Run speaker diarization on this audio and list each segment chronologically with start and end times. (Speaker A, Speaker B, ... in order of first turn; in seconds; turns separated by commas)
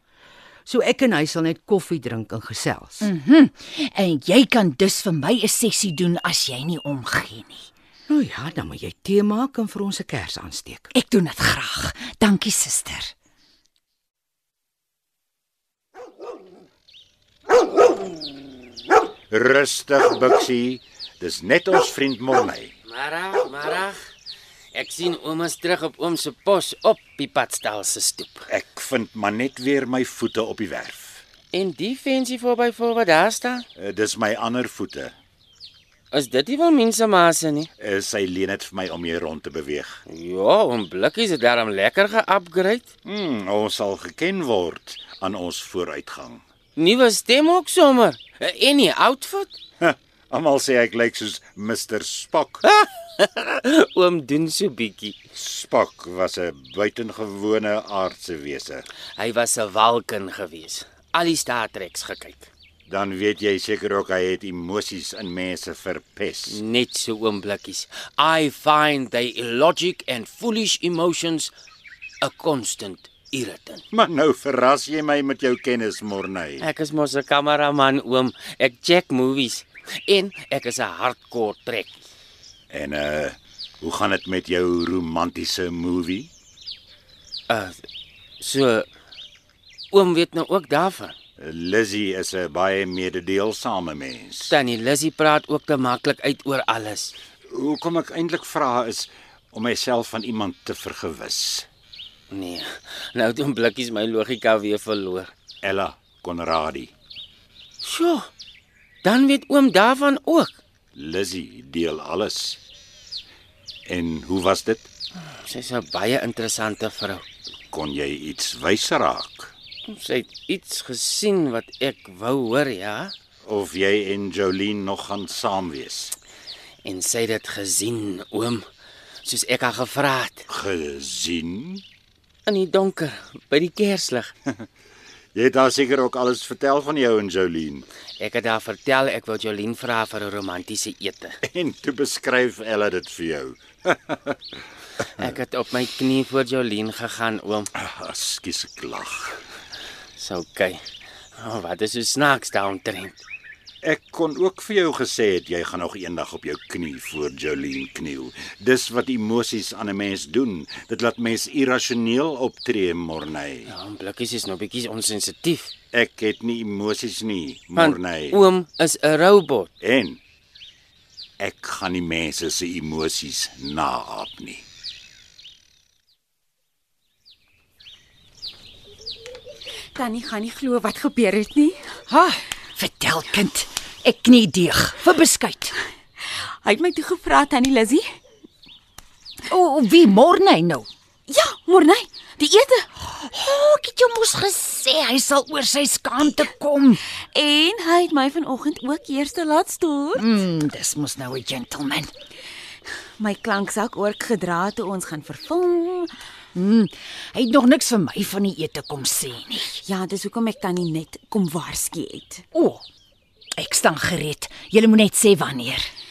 Speaker A: 0.7-3.1, Speaker B: 3.0-7.7, Speaker A: 8.1-10.9, Speaker B: 10.9-13.1, Speaker C: 19.3-22.7, Speaker D: 22.9-24.0, Speaker D: 24.7-28.5, Speaker C: 28.5-31.2, Speaker D: 31.5-33.7, Speaker C: 33.8-35.1, Speaker D: 36.1-37.7, Speaker C: 37.8-40.0, Speaker D: 40.1-42.9, Speaker C: 43.1-46.4, Speaker D: 46.8-49.5, Speaker C: 49.8-52.6, Speaker D: 52.6-55.2, Speaker C: 55.4-58.9, Speaker D: 59.2-62.5, Speaker C: 62.9-66.6, Speaker D: 66.5-71.5, Speaker D: 72.2-73.8, Speaker C: 73.9-76.7, Speaker D: 76.6-82.0, Speaker C: 82.7-86.3, Speaker D: 87.5-87.8, Speaker D: 88.4-88.9, Speaker D: 89.9-91.2, Speaker C: 91.4-94.5, Speaker D: 94.5-97.1, Speaker C: 97.5-101.7, Speaker D: 102.3-105.3, Speaker C: 105.6-106.9, Speaker D: 107.8-108.3, Speaker D: 109.0-110.6, Speaker C: 111.0-112.6, Speaker C: 113.9-114.9, Speaker D: 115.3-117.2, Speaker C: 117.7-119.5, Speaker D: 119.9-123.1, Speaker C: 123.5-126.2, Speaker D: 126.8-128.7, Speaker D: 129.2-130.4, Speaker C: 130.5-131.8, Speaker D: 132.5-134.3, Speaker C: 135.3-137.9, Speaker D: 138.2-141.4, Speaker C: 141.5-144.6, Speaker D: 145.1-147.7, Speaker C: 147.8-149.4, Speaker D: 150.2-150.8, Speaker D: 151.4-153.2, Speaker C: 153.8-163.7, Speaker D: 163.7-165.7, Speaker C: 165.9-168.4, Speaker D: 167.8-169.7, Speaker C: 169.8-170.2, Speaker C: 171.4-174.7, Speaker E: 179.9-182.0, Speaker B: 182.1-185.8, Speaker E: 186.2-188.1, Speaker B: 189.5-190.9, Speaker E: 191.3-192.9, Speaker B: 193.0-197.0, Speaker E: 197.3-200.3, Speaker B: 200.2-202.1, Speaker E: 203.2-206.1, Speaker B: 206.6-209.8, Speaker E: 209.8-212.4, Speaker B: 212.5-212.8, Speaker B: 213.6-215.9